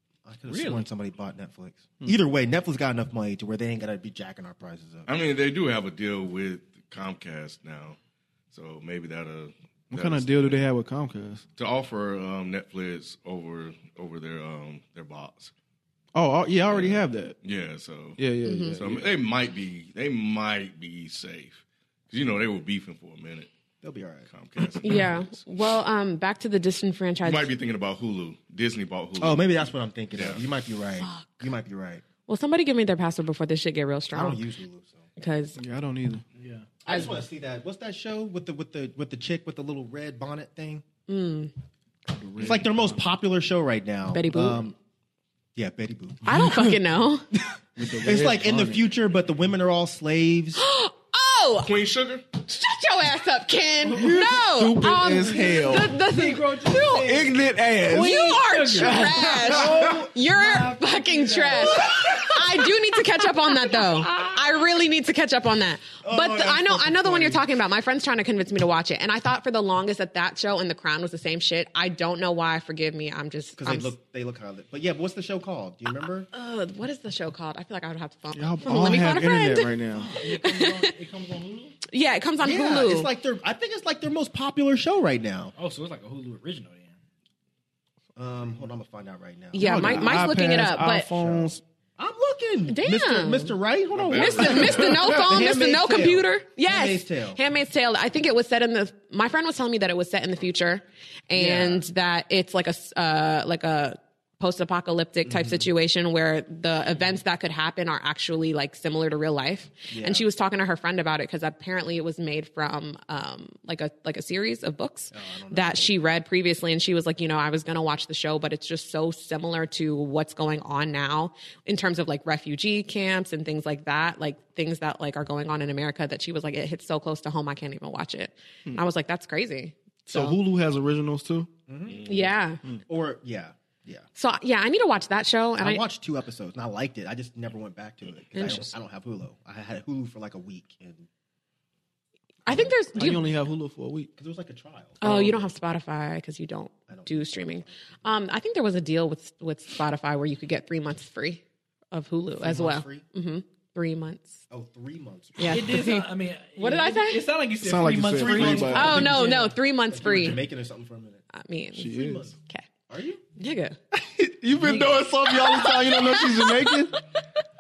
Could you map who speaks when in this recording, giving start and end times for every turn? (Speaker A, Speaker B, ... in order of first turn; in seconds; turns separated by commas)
Speaker A: 0.3-5.1, Speaker B: 5.1-8.0, Speaker B: 8.5-10.6, Speaker C: 9.9-11.4, Speaker B: 11.6-15.5, Speaker C: 16.1-17.4, Speaker B: 16.7-18.2, Speaker C: 18.2-19.1, Speaker D: 18.4-18.8, Speaker B: 18.8-23.5, Speaker A: 23.8-24.3, Speaker B: 24.3-25.4, Speaker D: 24.8-27.5, Speaker B: 27.2-30.4, Speaker A: 29.2-32.0, Speaker D: 31.0-31.5, Speaker D: 32.3-34.4, Speaker A: 34.1-35.0, Speaker D: 35.2-35.6, Speaker C: 35.6-36.2, Speaker E: 36.4-37.0, Speaker A: 36.8-40.8, Speaker D: 41.1-41.5, Speaker C: 42.2-42.8, Speaker A: 42.4-44.8, Speaker D: 44.1-44.6, Speaker A: 45.6-46.3, Speaker D: 46.2-47.2, Speaker C: 46.4-46.7, Speaker C: 47.8-48.9, Speaker A: 48.0-50.6, Speaker D: 50.6-51.7, Speaker B: 51.6-52.2, Speaker D: 52.4-57.2, Speaker C: 53.9-56.0, Speaker E: 55.6-62.0, Speaker C: 56.9-60.0, Speaker D: 57.9-73.9, Speaker A: 66.0-67.5, Speaker A: 73.6-76.3, Speaker D: 76.3-79.8, Speaker C: 78.3-80.1, Speaker A: 78.7-79.0, Speaker E: 80.0-81.8, Speaker D: 80.3-80.9, Speaker D: 81.9-83.1, Speaker A: 82.4-85.5, Speaker E: 85.6-87.0, Speaker A: 88.2-90.2, Speaker D: 89.5-91.1, Speaker C: 89.6-91.6, Speaker A: 91.2-97.4, Speaker D: 92.7-93.6, Speaker B: 93.9-95.0, Speaker D: 94.1-130.3, Speaker A: 101.3-101.8, Speaker A: 105.3-105.7, Speaker A: 109.9-110.2, Speaker A: 115.1-115.7, Speaker C: 130.1-131.5, Speaker A: 131.7-132.1, Speaker B: 131.9-132.3, Speaker D: 132.1-132.6, Speaker A: 132.9-134.1, Speaker D: 134.2-135.8, Speaker A: 135.6-141.1, Speaker D: 138.3-138.7, Speaker D: 142.5-143.3, Speaker A: 142.5-143.1, Speaker C: 142.9-144.1, Speaker A: 144.2-145.5, Speaker D: 145.0-154.4, Speaker C: 145.1-145.3, Speaker A: 146.9-148.0, Speaker A: 152.4-153.1, Speaker A: 154.5-155.6, Speaker D: 155.4-157.2, Speaker E: 155.5-159.6, Speaker C: 157.6-159.2, Speaker A: 158.1-159.2, Speaker D: 158.6-160.4, Speaker A: 159.9-161.2, Speaker D: 161.3-162.7, Speaker C: 161.8-162.3, Speaker A: 161.9-162.3, Speaker A: 162.9-163.2, Speaker D: 163.4-163.8, Speaker C: 163.9-167.0, Speaker E: 164.6-165.1, Speaker D: 165.3-166.8